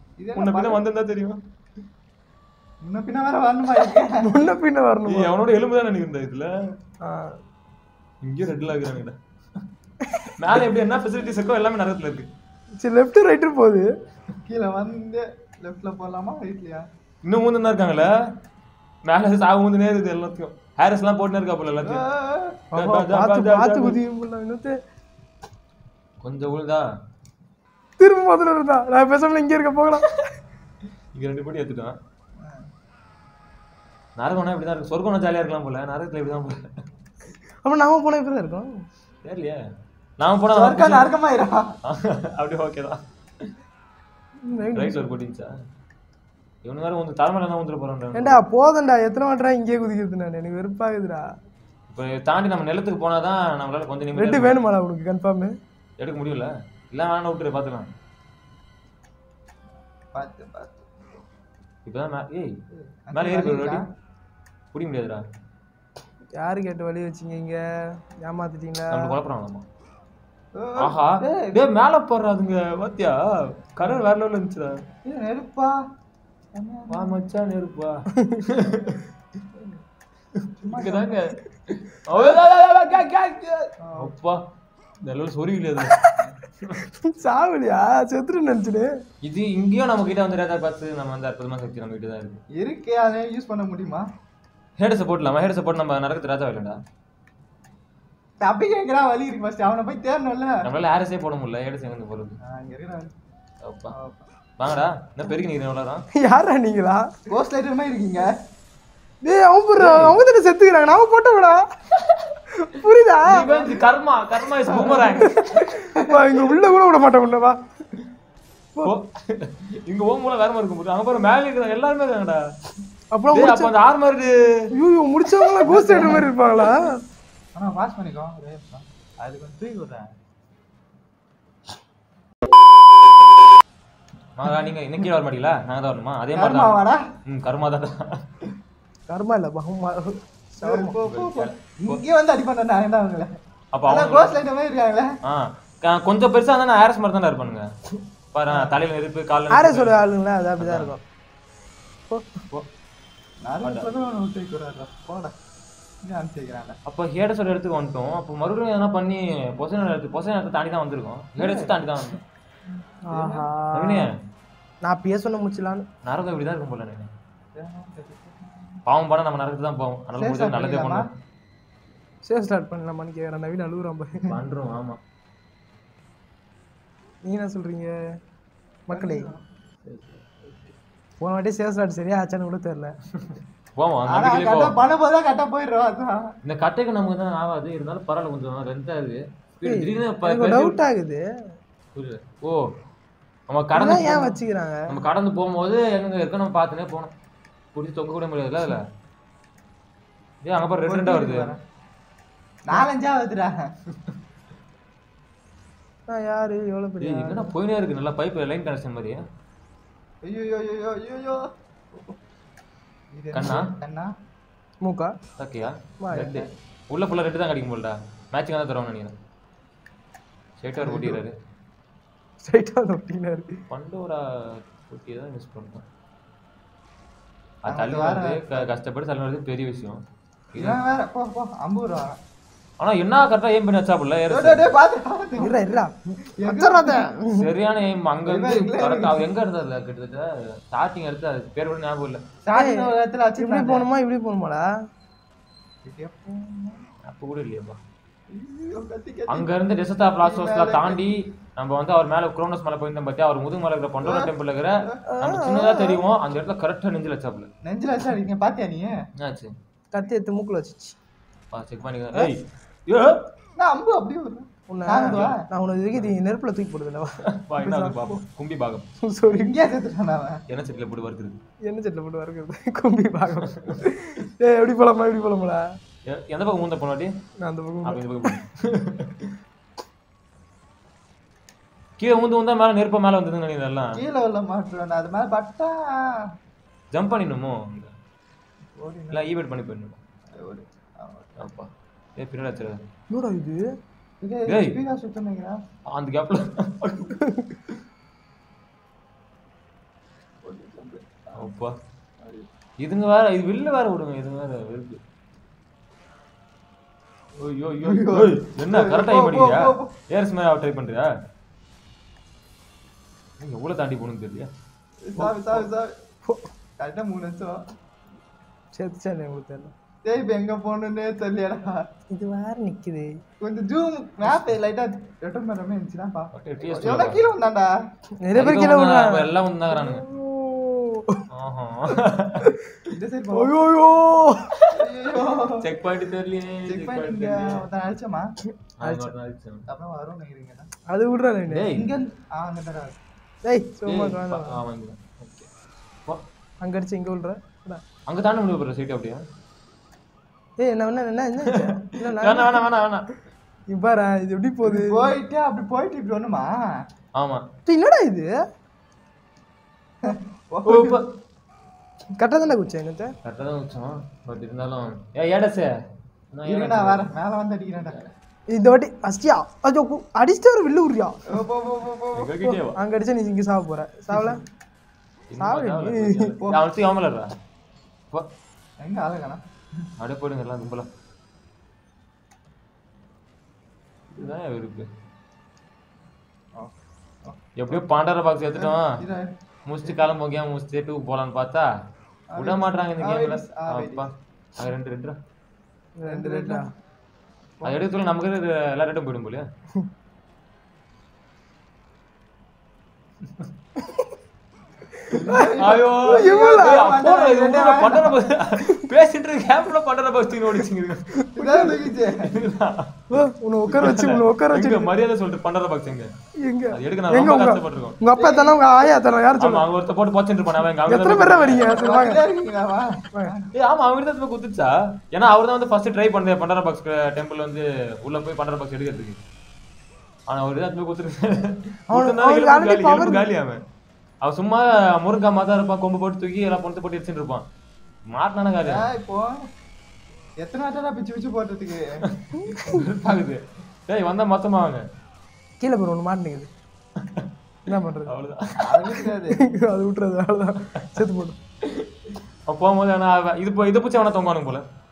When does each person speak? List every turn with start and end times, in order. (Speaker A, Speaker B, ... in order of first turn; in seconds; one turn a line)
Speaker A: 0.2-0.8
Speaker B: 0.4-1.4
Speaker A: 2.8-4.2
Speaker C: 4.2-5.3
Speaker B: 5.1-6.5
Speaker C: 7.0-7.4
Speaker B: 8.2-9.6
Speaker B: 10.4-12.3
Speaker C: 12.8-13.9
Speaker A: 14.5-16.9
Speaker B: 17.2-18.1
Speaker B: 19.1-22.0
Speaker A: 21.8-22.6
Speaker C: 22.7-24.8
Speaker B: 22.7-24.0
Speaker B: 26.2-26.9
Speaker C: 28.0-30.2
Speaker B: 31.1-32.0
Speaker A: 32.4-32.7
Speaker B: 34.2-36.7
Speaker C: 37.6-38.8
Speaker B: 39.2-39.6
Speaker B: 40.2-41.1
Speaker A: 40.5-41.8
Speaker B: 41.8-43.0
Speaker C: 44.5-45.0
Speaker B: 44.7-45.6
Speaker B: 46.6-48.4
Speaker C: 48.1-51.3
Speaker B: 51.9-54.6
Speaker C: 54.2-55.5
Speaker B: 56.0-57.9
Speaker A: 60.1-60.8
Speaker B: 61.9-62.6
Speaker A: 63.1-63.9
Speaker B: 63.1-63.9
Speaker B: 64.7-65.2
Speaker C: 66.4-69.2
Speaker B: 68.9-69.7
Speaker A: 70.6-71.7
Speaker B: 70.8-74.8
Speaker A: 75.0-75.8
Speaker A: 76.5-77.2
Speaker B: 76.9-79.0
Speaker C: 78.1-78.4
Speaker B: 80.3-84.4
Speaker A: 80.6-81.2
Speaker A: 83.8-84.1
Speaker B: 85.0-86.0
Speaker C: 85.9-86.2
Speaker C: 86.8-88.9
Speaker B: 89.2-92.4
Speaker A: 92.5-94.1
Speaker B: 94.8-96.8
Speaker A: 98.4-100.7
Speaker B: 100.6-102.4
Speaker A: 102.4-103.1
Speaker B: 103.6-104.0
Speaker A: 103.9-104.2
Speaker B: 104.6-106.0
Speaker C: 106.1-107.1
Speaker A: 107.3-108.3
Speaker C: 109.2-111.7
Speaker B: 109.8-110.2
Speaker C: 112.5-113.5
Speaker B: 113.2-115.8
Speaker A: 113.3-113.8
Speaker A: 114.7-115.1
Speaker C: 115.2-117.6
Speaker B: 118.8-122.4
Speaker C: 123.1-123.7
Speaker B: 123.3-124.7
Speaker C: 124.7-127.0
Speaker A: 125.7-126.3
Speaker A: 127.6-130.1
Speaker B: 134.4-138.3
Speaker A: 136.3-137.1
Speaker C: 139.1-140.9
Speaker A: 140.6-143.3
Speaker B: 141.0-142.0
Speaker B: 143.7-144.4
Speaker A: 143.9-145.1
Speaker B: 145.2-147.7
Speaker B: 148.3-150.0
Speaker A: 148.5-148.8
Speaker C: 149.5-151.0
Speaker B: 150.6-150.9
Speaker C: 152.1-152.4
Speaker A: 153.4-155.3
Speaker B: 153.6-153.9
Speaker A: 156.0-156.8
Speaker B: 156.9-162.2
Speaker A: 161.4-161.8
Speaker C: 163.1-164.1
Speaker A: 163.1-163.5
Speaker B: 163.7-164.2
Speaker C: 164.8-165.9
Speaker B: 166.0-167.1
Speaker A: 167.6-168.8
Speaker B: 168.9-171.1
Speaker A: 170.2-171.1
Speaker C: 172.2-174.4
Speaker B: 174.2-175.0
Speaker C: 177.2-178.0
Speaker C: 178.9-179.3
Speaker A: 178.9-179.4
Speaker B: 179.8-180.7
Speaker C: 181.2-182.9
Speaker B: 183.2-184.8
Speaker A: 184.1-186.3
Speaker B: 186.4-190.8
Speaker C: 189.7-191.2
Speaker B: 191.9-192.7
Speaker B: 193.5-194.3
Speaker C: 193.8-194.9
Speaker B: 194.9-197.1
Speaker B: 197.7-198.9
Speaker B: 200.4-201.5
Speaker A: 200.7-201.6
Speaker A: 202.7-203.7
Speaker C: 206.1-207.5
Speaker B: 207.0-209.2
Speaker A: 210.2-212.2
Speaker A: 213.1-214.1
Speaker B: 213.3-213.7
Speaker C: 214.8-215.2
Speaker B: 215.4-219.2
Speaker C: 216.0-216.4
Speaker B: 220.6-221.4
Speaker A: 220.8-221.2
Speaker C: 222.4-223.5
Speaker B: 223.7-225.9
Speaker B: 227.7-230.8
Speaker A: 227.7-228.7
Speaker A: 230.6-232.2
Speaker B: 232.8-234.7
Speaker A: 234.3-235.8
Speaker C: 235.4-237.5
Speaker A: 236.4-237.1
Speaker B: 237.3-242.2
Speaker A: 238.3-239.3
Speaker A: 242.4-243.9
Speaker C: 242.6-244.7
Speaker A: 245.8-246.9
Speaker B: 247.0-247.8
Speaker A: 248.3-249.5
Speaker B: 249.3-257.5
Speaker A: 250.2-251.0
Speaker A: 254.0-255.0
Speaker C: 255.1-256.0
Speaker A: 257.6-259.0
Speaker B: 259.2-259.6
Speaker C: 259.9-261.0
Speaker B: 261.5-263.2
Speaker A: 263.6-265.4
Speaker C: 264.7-268.2
Speaker B: 265.1-265.4
Speaker B: 267.3-268.9
Speaker C: 269.0-269.5
Speaker A: 269.3-270.4
Speaker B: 270.5-271.4
Speaker C: 271.6-275.6
Speaker B: 273.4-273.8
Speaker B: 276.1-277.1
Speaker C: 277.4-278.3
Speaker B: 277.8-279.3
Speaker B: 282.0-284.0
Speaker A: 283.9-286.3
Speaker B: 286.9-287.9
Speaker A: 288.8-289.3
Speaker B: 289.1-290.0
Speaker A: 290.4-291.4
Speaker B: 291.4-292.8
Speaker C: 293.1-293.7
Speaker A: 294.2-295.6
Speaker B: 294.5-294.8
Speaker B: 295.9-297.2
Speaker C: 297.2-297.6
Speaker A: 300.4-301.5
Speaker B: 301.4-301.8
Speaker B: 302.8-305.0
Speaker B: 307.4-311.1
Speaker A: 307.8-309.9
Speaker B: 313.4-314.5
Speaker A: 315.1-315.9
Speaker B: 315.2-315.6
Speaker A: 316.8-317.7
Speaker C: 318.7-319.7
Speaker A: 320.1-321.8
Speaker C: 322.1-323.1
Speaker A: 323.4-327.7
Speaker B: 326.4-327.2
Speaker C: 328.2-331.2
Speaker B: 328.3-330.1
Speaker B: 331.3-332.5
Speaker C: 332.4-332.8
Speaker A: 332.9-333.6
Speaker C: 333.3-334.6
Speaker A: 334.7-335.7
Speaker B: 335.6-337.6
Speaker A: 336.7-338.3
Speaker B: 338.8-339.7
Speaker C: 338.8-339.1
Speaker A: 339.7-340.7
Speaker C: 340.9-341.7
Speaker B: 341.5-341.9
Speaker A: 341.7-343.0
Speaker C: 343.4-344.6
Speaker B: 343.9-345.5
Speaker C: 346.6-347.8
Speaker B: 348.1-349.2
Speaker C: 350.6-352.6
Speaker B: 351.4-353.1
Speaker C: 353.7-355.1
Speaker A: 354.6-356.7
Speaker B: 357.2-357.5
Speaker C: 357.7-358.3
Speaker A: 360.0-361.0
Speaker B: 360.6-361.1
Speaker C: 362.2-363.1
Speaker B: 363.2-365.7
Speaker B: 366.3-367.1
Speaker A: 366.5-368.0
Speaker B: 367.9-368.1
Speaker C: 368.5-371.3
Speaker A: 371.3-372.4
Speaker B: 372.1-372.8
Speaker C: 372.4-374.4
Speaker B: 375.3-377.3
Speaker C: 375.4-376.3
Speaker A: 378.8-379.9
Speaker B: 380.0-380.9
Speaker B: 384.1-384.9
Speaker A: 386.6-387.5
Speaker B: 387.6-389.0
Speaker A: 388.6-389.3
Speaker B: 389.7-391.7
Speaker A: 389.9-390.1
Speaker A: 392.3-394.1
Speaker B: 392.4-395.2
Speaker C: 396.0-396.7
Speaker A: 396.1-396.7
Speaker A: 397.6-397.9
Speaker B: 397.6-399.5
Speaker C: 403.8-404.1
Speaker C: 405.0-406.8
Speaker A: 405.1-408.2
Speaker B: 405.4-411.1
Speaker C: 411.1-411.8
Speaker A: 411.4-412.3
Speaker B: 412.1-416.1
Speaker C: 413.1-414.9
Speaker C: 416.4-419.6
Speaker B: 416.7-418.0
Speaker A: 418.2-418.6
Speaker B: 419.4-421.7
Speaker C: 420.8-422.2
Speaker A: 421.6-423.5
Speaker B: 423.5-429.2
Speaker B: 430.3-433.6
Speaker C: 431.9-433.3
Speaker B: 434.2-437.5
Speaker B: 438.1-438.9
Speaker A: 438.6-439.4
Speaker A: 440.4-442.1
Speaker B: 442.1-444.8
Speaker C: 442.4-442.8
Speaker C: 445.6-446.5
Speaker B: 447.0-447.3
Speaker C: 447.7-448.2
Speaker B: 448.1-449.1
Speaker A: 448.6-449.4
Speaker C: 449.4-451.4
Speaker B: 450.8-451.1
Speaker B: 451.6-454.7